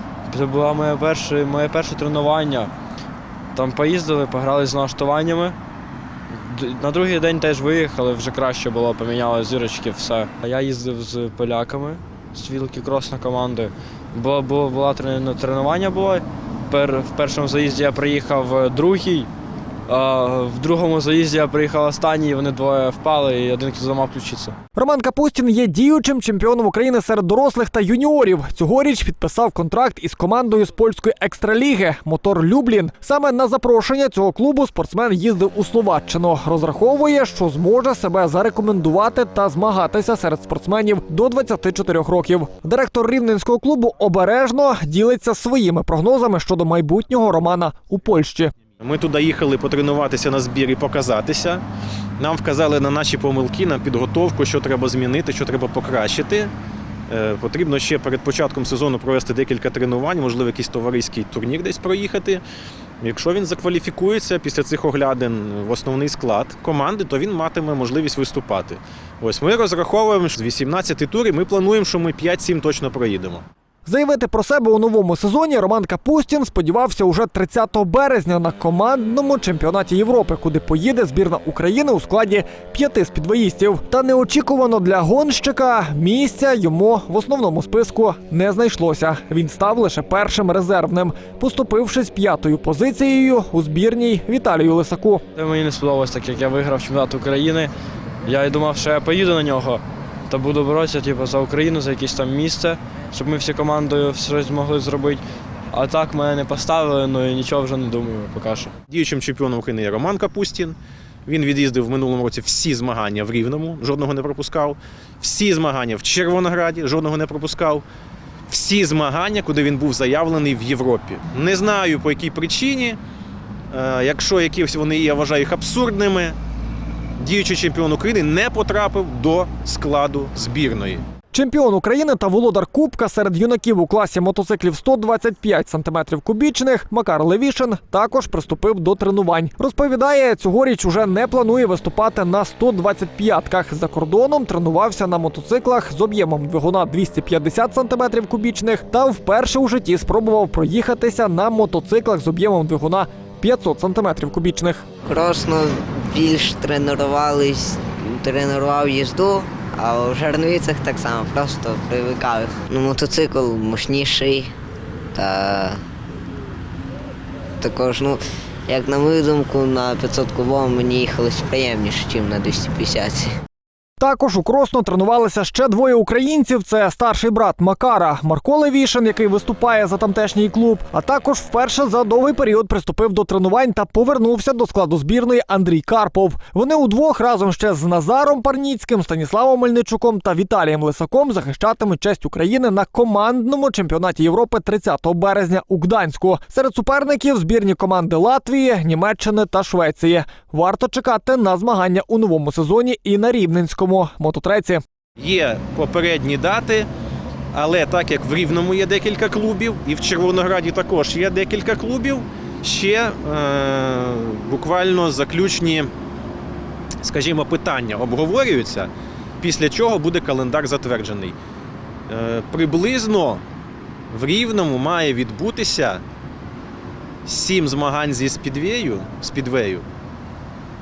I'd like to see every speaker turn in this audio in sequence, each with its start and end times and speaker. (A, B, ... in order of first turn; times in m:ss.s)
0:00.3-0:02.7 A
0:03.5-0:05.6 A
0:06.3-0:19.3 A
0:19.9-0:24.6 A
0:24.8-0:48.5 B
0:48.8-0:51.6 C
0:52.2-0:56.5 C
0:57.1-1:02.4 C
1:03.0-1:13.4 C
1:13.8-1:35.2 B
1:35.3-1:37.7 A
1:38.2-1:45.2 A
1:45.7-1:48.7 A
1:48.9-1:57.8 C
1:58.5-2:03.0 C
2:03.7-2:06.4 C
2:07.2-2:11.0 C
2:11.3-2:34.8 B
2:35.0-2:44.5 D
2:45.1-2:45.8 D
2:47.6-2:53.3 D
2:54.0-3:24.8 B
3:25.2-3:26.9 C
3:27.5-3:35.9 C
3:37.0-3:41.4 C
3:42.1-3:43.4 C
3:44.1-3:46.0 C
3:47.2-3:49.8 C